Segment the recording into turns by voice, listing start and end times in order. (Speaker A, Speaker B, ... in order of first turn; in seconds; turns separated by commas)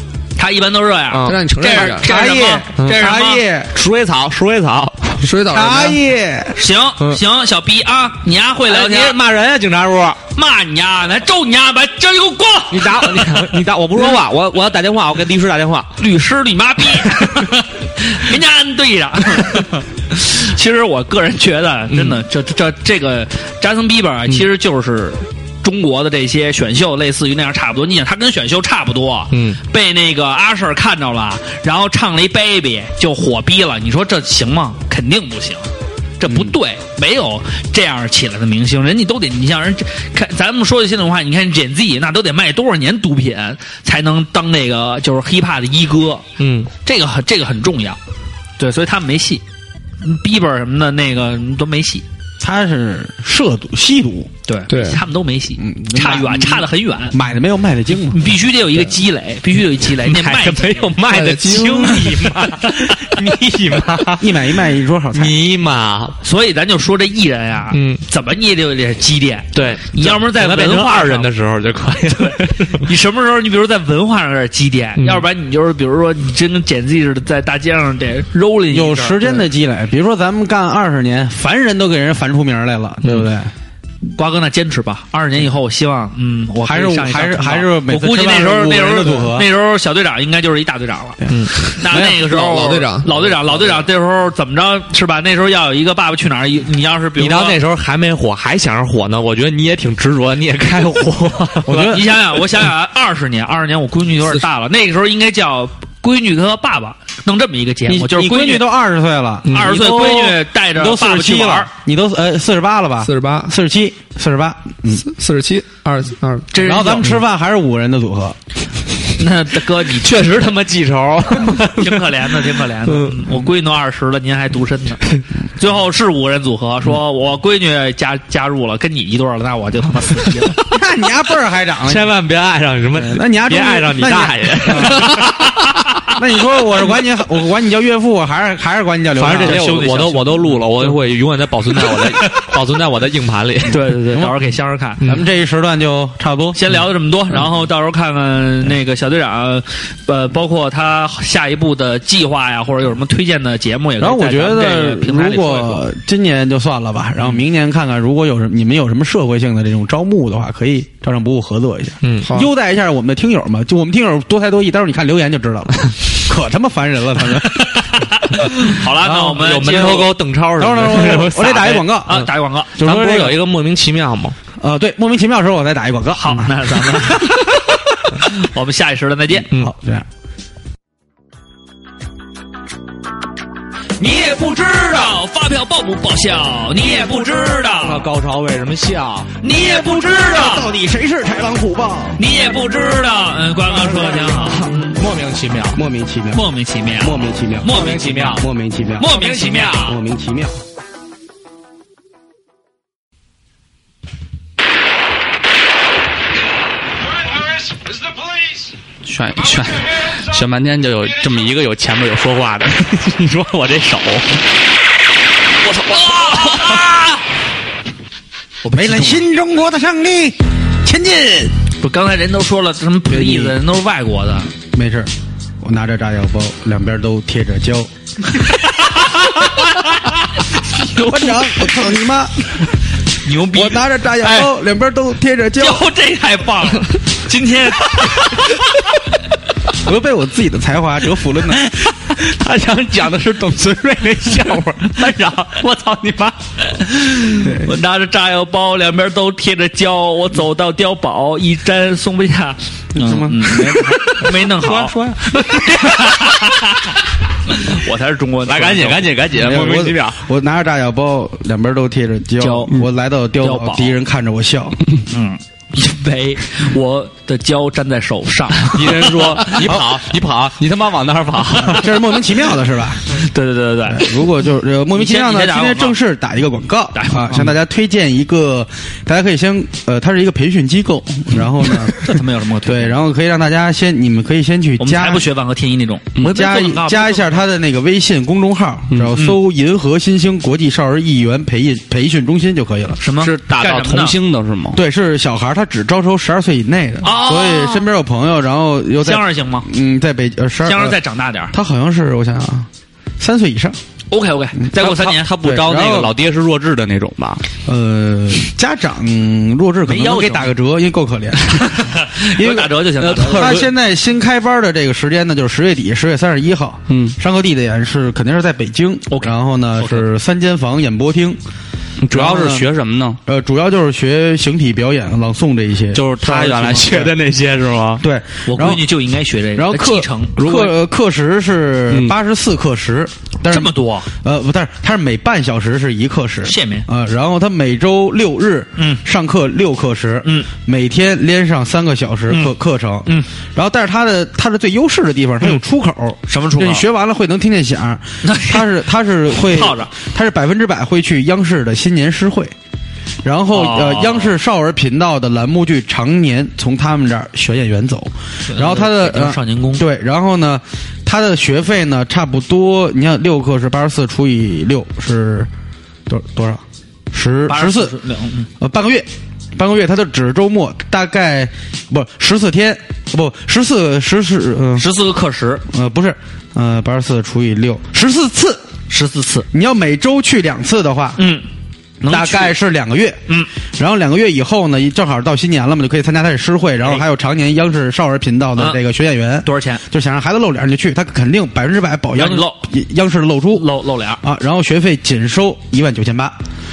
Speaker A: 0.4-3.4, Speaker B: 1.1-1.4, Speaker C: 1.2-2.1, Speaker D: 1.8-3.7, Speaker B: 3.7-5.2, Speaker C: 5.2-6.0, Speaker D: 5.5-6.6, Speaker A: 6.5-9.2, Speaker B: 8.7-10.2, Speaker A: 10.3-13.5, Speaker B: 12.7-16.0, Speaker A: 16.0-46.2, Speaker B: 17.1-17.5, Speaker B: 21.9-22.2, Speaker B: 29.3-29.6, Speaker D: 36.3-36.5, Speaker B: 46.4-46.7, Speaker A: 46.8-48.0, Speaker A: 48.6-49.4, Speaker A: 50.0-52.0, Speaker D: 52.4-54.3, Speaker A: 54.5-57.2, Speaker C: 54.7-55.0, Speaker D: 55.6-58.2, Speaker A: 58.1-60.9, Speaker B: 59.9-64.6, Speaker C: 61.1-62.1, Speaker D: 61.6-62.0, Speaker D: 64.2-65.3, Speaker B: 65.1-66.2, Speaker A: 66.2-71.3, Speaker B: 67.7-68.0, Speaker B: 69.5-72.8, Speaker A: 72.0-79.5, Speaker B: 75.0-75.2, Speaker D: 78.7-83.5, Speaker A: 84.2-97.6, Speaker D: 86.6-89.5, Speaker C: 91.3-93.2, Speaker B: 97.2-102.2, Speaker D: 101.7-102.1, Speaker A: 101.9-108.7, Speaker D: 107.9-115.1, Speaker A: 109.5-111.7, Speaker B: 109.5-109.8, Speaker C: 113.0-113.5, Speaker C: 114.9-116.5, Speaker A: 116.5-117.2, Speaker D: 116.5-118.3, Speaker A: 119.2-120.3, Speaker B: 119.9-123.2, Speaker A: 121.5-125.0, Speaker A: 125.6-130.6, Speaker D: 130.7-132.1, Speaker B: 131.8-135.7, Speaker D: 133.0-135.3, Speaker D: 136.1-139.8, Speaker B: 139.2-143.8, Speaker A: 139.2-140.6, Speaker A: 143.7-145.1, Speaker D: 145.0-146.6, Speaker A: 146.5-155.8, Speaker D: 154.0-168.0, Speaker B: 162.0-162.4, Speaker C: 162.2-162.5, Speaker A: 167.7-170.1, Speaker B: 169.0-174.3, Speaker D: 170.6-172.2, Speaker A: 171.1-172.7, Speaker D: 172.8-173.4, Speaker D: 174.6-177.8, Speaker A: 176.2-177.5, Speaker A: 178.2-179.5, Speaker D: 179.5-180.0, Speaker B: 184.0-185.2, Speaker A: 184.7-188.0, Speaker B: 187.8-190.7, Speaker A: 189.4-190.6, Speaker D: 190.3-192.2, Speaker A: 192.2-194.8, Speaker B: 193.7-195.8, Speaker D: 195.7-196.4, Speaker A: 196.3-198.4, Speaker D: 197.0-199.1, Speaker B: 197.7-198.4, Speaker A: 199.0-199.9, Speaker B: 199.0-200.0, Speaker D: 199.8-200.6, Speaker B: 209.0-214.4, Speaker A: 215.7-217.2, Speaker B: 215.8-216.9, Speaker A: 218.6-219.2, Speaker D: 218.7-221.5, Speaker A: 221.8-224.5, Speaker D: 223.1-223.5, Speaker D: 224.7-225.1, Speaker D: 225.6-227.9, Speaker A: 228.3-231.7, Speaker D: 230.8-232.3, Speaker A: 233.2-234.4, Speaker D: 233.5-235.8, Speaker A: 235.6-238.6, Speaker B: 238.0-238.4, Speaker D: 239.8-241.7, Speaker B: 241.8-246.4, Speaker A: 246.7-257.0, Speaker D: 252.9-254.1, Speaker B: 254.2-256.5, Speaker A: 257.5-259.2, Speaker B: 258.4-260.2, Speaker D: 259.3-264.8, Speaker A: 262.4-262.8, Speaker A: 263.4-264.0, Speaker A: 265.1-269.6, Speaker B: 268.6-272.1, Speaker D: 269.6-270.0, Speaker D: 271.6-273.2, Speaker A: 273.1-274.1, Speaker D: 273.9-285.2, Speaker A: 274.9-276.0, Speaker A: 276.9-277.5, Speaker A: 281.9-283.0, Speaker A: 284.8-287.4, Speaker D: 286.2-293.0, Speaker A: 289.1-289.4, Speaker A: 293.0-294.1, Speaker B: 293.2-294.8, Speaker D: 294.7-301.0, Speaker A: 297.0-297.9, Speaker A: 299.0-299.7, Speaker A: 300.6-301.5, Speaker D: 301.5-302.7, Speaker D: 303.2-303.8, Speaker A: 304.1-305.3, Speaker B: 304.7-307.4, Speaker D: 305.4-306.1, Speaker D: 307.6-311.8, Speaker A: 309.9-310.5, Speaker A: 311.4-313.6, Speaker B: 312.4-313.7, Speaker D: 313.2-321.4, Speaker B: 316.9-317.1, Speaker A: 319.1-320.0, Speaker B: 322.0-323.2, Speaker D: 322.1-322.7, Speaker D: 323.2-327.1, Speaker B: 325.9-328.0, Speaker D: 328.0-328.9, Speaker A: 328.4-330.7, Speaker D: 329.5-352.5, Speaker B: 330.4-330.7, Speaker B: 331.9-332.1, Speaker A: 333.4-334.1, Speaker A: 336.4-336.9, Speaker A: 338.8-339.0, Speaker A: 340.2-340.5, Speaker A: 346.3-346.8, Speaker A: 348.2-348.7, Speaker A: 349.3-349.9, Speaker D: 353.2-365.5, Speaker A: 353.5-354.3, Speaker A: 358.5-359.9, Speaker D: 366.1-367.9, Speaker A: 367.5-368.5, Speaker D: 368.6-374.8, Speaker A: 374.8-375.6, Speaker D: 375.7-378.6, Speaker A: 378.9-379.5, Speaker D: 379.5-381.2, Speaker A: 381.2-381.4, Speaker A: 382.0-382.6, Speaker D: 382.0-383.2, Speaker D: 383.8-393.6, Speaker A: 388.6-388.8, Speaker A: 389.4-389.8, Speaker A: 392.1-392.6, Speaker A: 393.5-394.2, Speaker D: 394.2-396.4